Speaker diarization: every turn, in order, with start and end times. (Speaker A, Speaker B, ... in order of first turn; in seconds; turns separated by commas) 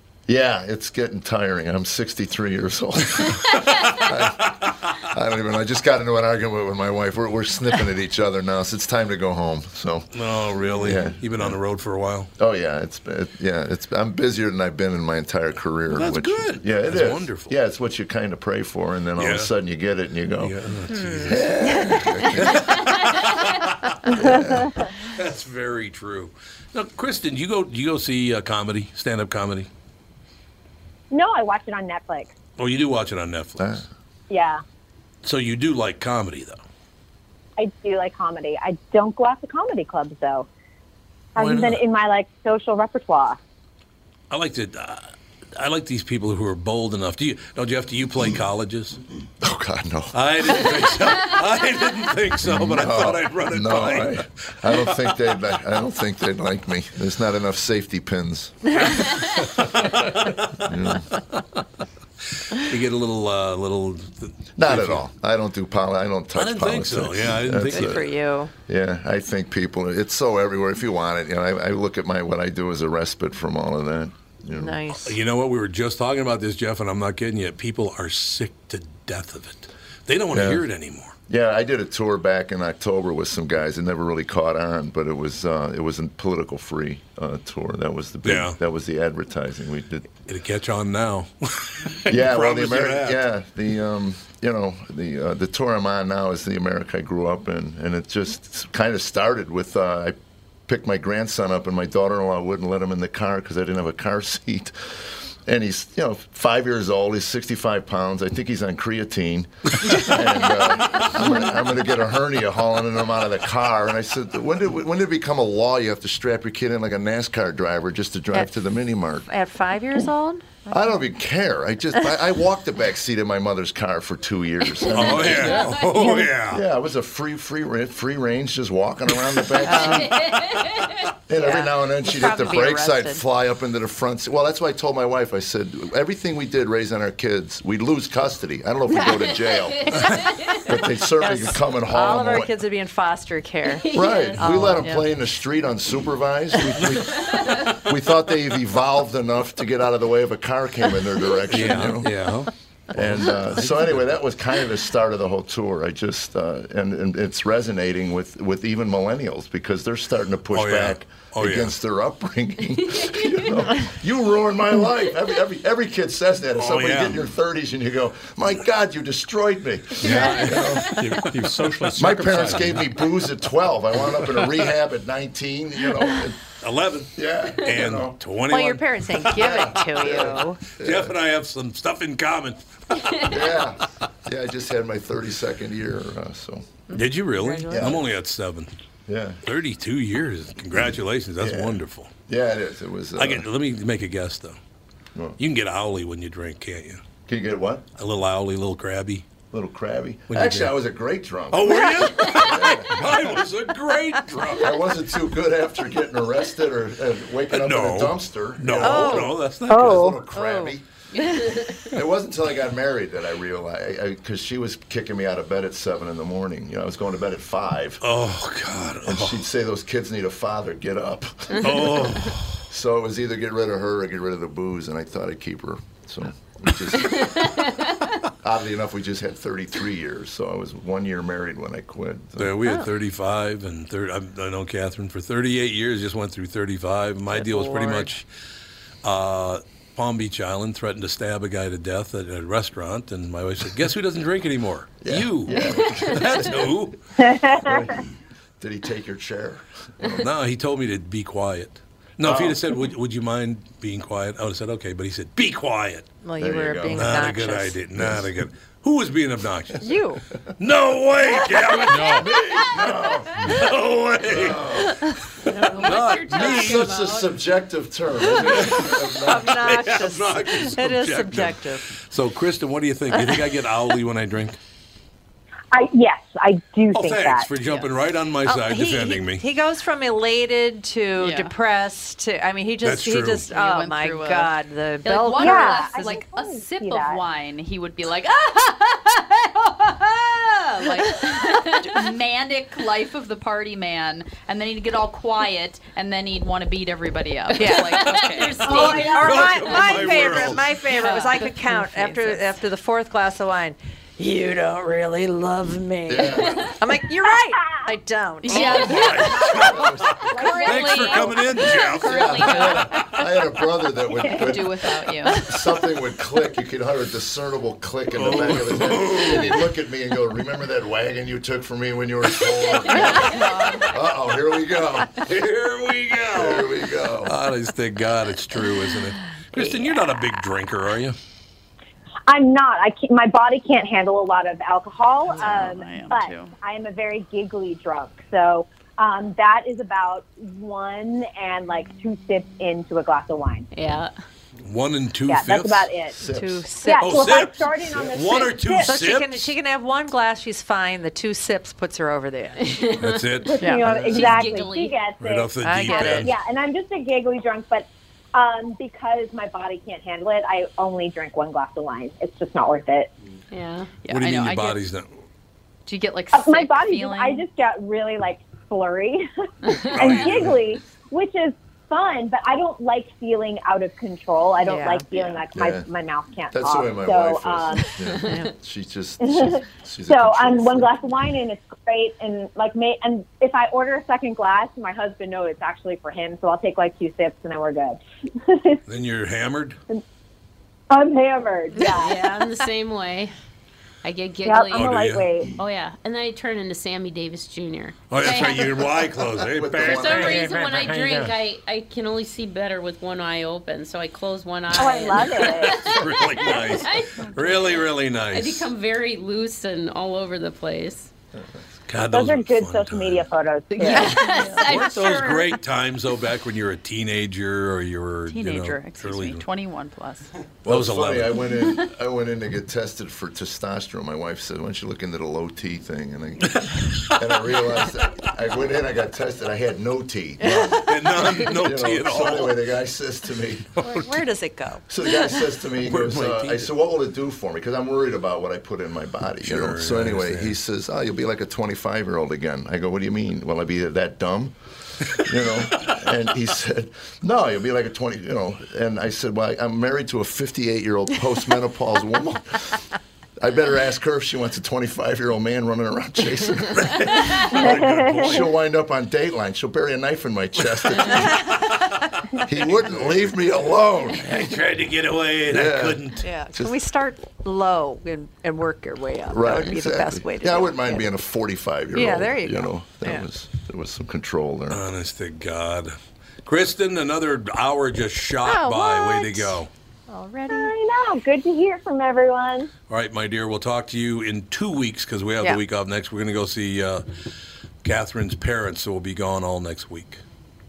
Speaker A: 0.3-10.1, Speaker B: 10.1-12.3, Speaker A: 10.8-11.6, Speaker A: 12.4-20.5, Speaker B: 15.9-17.6, Speaker B: 19.2-19.5, Speaker B: 20.4-24.4, Speaker C: 20.9-22.2, Speaker A: 21.2-22.7, Speaker D: 22.7-23.4, Speaker A: 24.1-24.8, Speaker B: 24.9-29.7, Speaker E: 31.1-32.3, Speaker B: 32.6-33.8, Speaker A: 33.6-33.8, Speaker E: 34.3-34.6, Speaker B: 35.2-36.6, Speaker E: 37.6-40.5, Speaker E: 41.3-43.4, Speaker B: 41.4-41.8, Speaker B: 44.3-49.0, Speaker A: 49.4-50.9, Speaker B: 50.1-55.1, Speaker A: 52.4-58.7, Speaker B: 58.8-61.0, Speaker A: 60.6-61.0, Speaker B: 62.5-65.0, Speaker A: 64.5-68.1, Speaker B: 66.3-68.1, Speaker C: 67.6-68.5, Speaker A: 68.7-74.8, Speaker C: 74.5-75.1, Speaker B: 74.9-81.1, Speaker A: 80.3-80.7, Speaker A: 81.3-90.1, Speaker B: 88.2-88.6, Speaker B: 90.2-93.2, Speaker A: 92.1-100.2, Speaker A: 100.7-119.2, Speaker C: 111.2-111.5, Speaker C: 119.2-120.9, Speaker A: 120.7-125.7, Speaker C: 121.9-122.2, Speaker D: 124.6-126.3, Speaker B: 124.9-126.6, Speaker C: 125.3-126.2, Speaker A: 126.4-130.3, Speaker D: 129.6-131.1, Speaker C: 129.6-130.1, Speaker A: 131.3-142.5, Speaker C: 131.3-133.2, Speaker C: 138.9-139.2, Speaker D: 138.9-140.8, Speaker C: 141.1-145.1, Speaker D: 143.7-144.7, Speaker A: 143.9-152.2, Speaker C: 146.5-146.9, Speaker D: 147.1-147.6, Speaker B: 151.5-154.2, Speaker C: 151.7-151.9, Speaker A: 152.9-170.9, Speaker B: 160.5-161.7, Speaker D: 162.8-163.7, Speaker B: 166.5-167.2, Speaker B: 170.0-171.3, Speaker F: 170.0-172.9, Speaker D: 170.2-170.9, Speaker A: 171.9-176.4, Speaker B: 176.6-179.7, Speaker A: 177.2-178.2, Speaker C: 178.5-180.6, Speaker A: 179.3-181.1, Speaker B: 180.8-183.7, Speaker A: 183.2-186.8, Speaker C: 186.9-188.0, Speaker B: 186.9-188.7, Speaker A: 187.7-188.1, Speaker A: 189.1-189.4, Speaker B: 189.4-192.1, Speaker A: 191.4-193.5, Speaker B: 193.2-194.6, Speaker B: 195.4-197.0, Speaker A: 197.2-197.8, Speaker B: 198.0-199.3, Speaker A: 199.5-203.1, Speaker B: 200.3-200.8, Speaker B: 201.5-204.8, Speaker D: 202.2-202.5, Speaker A: 204.5-210.8, Speaker B: 207.5-210.2, Speaker C: 208.7-211.6, Speaker E: 209.7-210.2, Speaker D: 211.1-211.8, Speaker A: 211.9-218.0, Speaker B: 218.0-219.4, Speaker A: 219.0-227.4, Speaker B: 221.6-222.6, Speaker D: 227.1-227.9, Speaker A: 228.4-232.6, Speaker B: 232.4-238.2, Speaker C: 237.3-238.1, Speaker B: 239.0-247.0, Speaker A: 245.0-246.7, Speaker D: 245.7-246.2, Speaker E: 247.2-247.8, Speaker A: 247.3-248.0, Speaker A: 248.6-250.3, Speaker B: 250.2-256.1, Speaker A: 252.2-252.6, Speaker C: 256.2-258.1, Speaker A: 256.4-257.2, Speaker B: 256.9-259.9, Speaker A: 257.9-258.3, Speaker C: 259.8-260.2, Speaker B: 260.6-262.4, Speaker C: 261.3-262.9, Speaker F: 261.9-262.3, Speaker A: 262.2-263.5, Speaker B: 263.4-267.1, Speaker A: 264.2-265.0, Speaker C: 264.9-265.1, Speaker D: 265.5-267.2, Speaker A: 266.1-269.8, Speaker C: 266.3-266.9, Speaker C: 268.2-271.8, Speaker B: 268.5-274.6, Speaker C: 273.1-273.4, Speaker E: 275.7-277.5, Speaker B: 276.9-279.4, Speaker C: 278.4-286.2, Speaker G: 281.2-281.5, Speaker B: 282.8-283.5, Speaker G: 283.5-299.1, Speaker E: 285.4-287.2, Speaker D: 297.5-300.0, Speaker C: 297.5-309.3, Speaker B: 298.6-300.7, Speaker G: 300.8-302.5, Speaker A: 306.1-306.8, Speaker G: 308.4-309.6, Speaker B: 308.4-312.6, Speaker E: 309.4-311.5, Speaker A: 309.7-310.1, Speaker G: 310.3-313.1, Speaker A: 312.0-325.1, Speaker C: 312.8-313.0, Speaker G: 314.2-315.4, Speaker E: 314.2-314.5, Speaker C: 315.3-315.8, Speaker B: 318.1-319.7, Speaker G: 322.8-324.0, Speaker C: 322.9-323.4, Speaker B: 325.1-331.2, Speaker A: 326.2-327.3, Speaker E: 332.3-343.7, Speaker G: 335.3-336.5, Speaker D: 343.7-344.1, Speaker B: 344.6-345.9, Speaker E: 345.3-346.2, Speaker A: 346.1-346.7, Speaker C: 346.2-347.4, Speaker E: 346.8-348.9, Speaker B: 347.0-349.5, Speaker C: 348.8-352.6, Speaker D: 352.6-355.0, Speaker B: 353.0-353.6, Speaker E: 353.4-363.1, Speaker B: 355.2-356.3, Speaker C: 355.6-356.3, Speaker D: 355.9-356.2, Speaker D: 363.5-363.9, Speaker G: 364.0-364.8, Speaker B: 364.1-365.1, Speaker G: 365.9-367.4, Speaker E: 366.3-369.3, Speaker D: 369.6-370.3, Speaker B: 369.9-370.6, Speaker E: 369.9-377.9, Speaker C: 374.6-375.1, Speaker A: 375.5-375.9, Speaker A: 376.5-381.0, Speaker D: 378.0-378.5, Speaker C: 378.1-378.5, Speaker E: 379.2-388.8, Speaker B: 388.9-389.8, Speaker E: 390.9-392.3, Speaker D: 391.8-393.3, Speaker D: 394.0-398.9, Speaker E: 394.4-395.5, Speaker B: 394.7-395.3, Speaker B: 398.1-401.4, Speaker A: 399.4-400.5, Speaker D: 399.8-411.1, Speaker E: 404.7-405.8, Speaker B: 405.2-408.7, Speaker B: 411.9-413.3, Speaker E: 412.1-414.2, Speaker D: 413.8-415.5, Speaker B: 413.8-419.5, Speaker G: 418.3-420.3, Speaker A: 420.6-426.6, Speaker B: 420.6-421.5, Speaker B: 426.4-427.3, Speaker A: 427.2-433.7, Speaker C: 430.4-430.9, Speaker B: 430.8-432.6, Speaker C: 433.8-435.5, Speaker B: 433.8-434.1, Speaker A: 434.9-444.6, Speaker B: 435.8-436.7, Speaker B: 439.4-440.6, Speaker A: 445.1-452.8, Speaker A: 453.4-461.4, Speaker B: 456.7-458.5, Speaker B: 460.9-463.3, Speaker A: 462.4-464.3, Speaker B: 464.1-466.2, Speaker A: 465.5-466.7, Speaker C: 466.2-471.1, Speaker A: 469.3-474.8, Speaker C: 471.9-473.3, Speaker B: 474.7-475.9, Speaker B: 476.4-479.7, Speaker C: 478.4-480.7, Speaker E: 480.5-482.7, Speaker B: 482.9-487.0, Speaker B: 487.8-490.2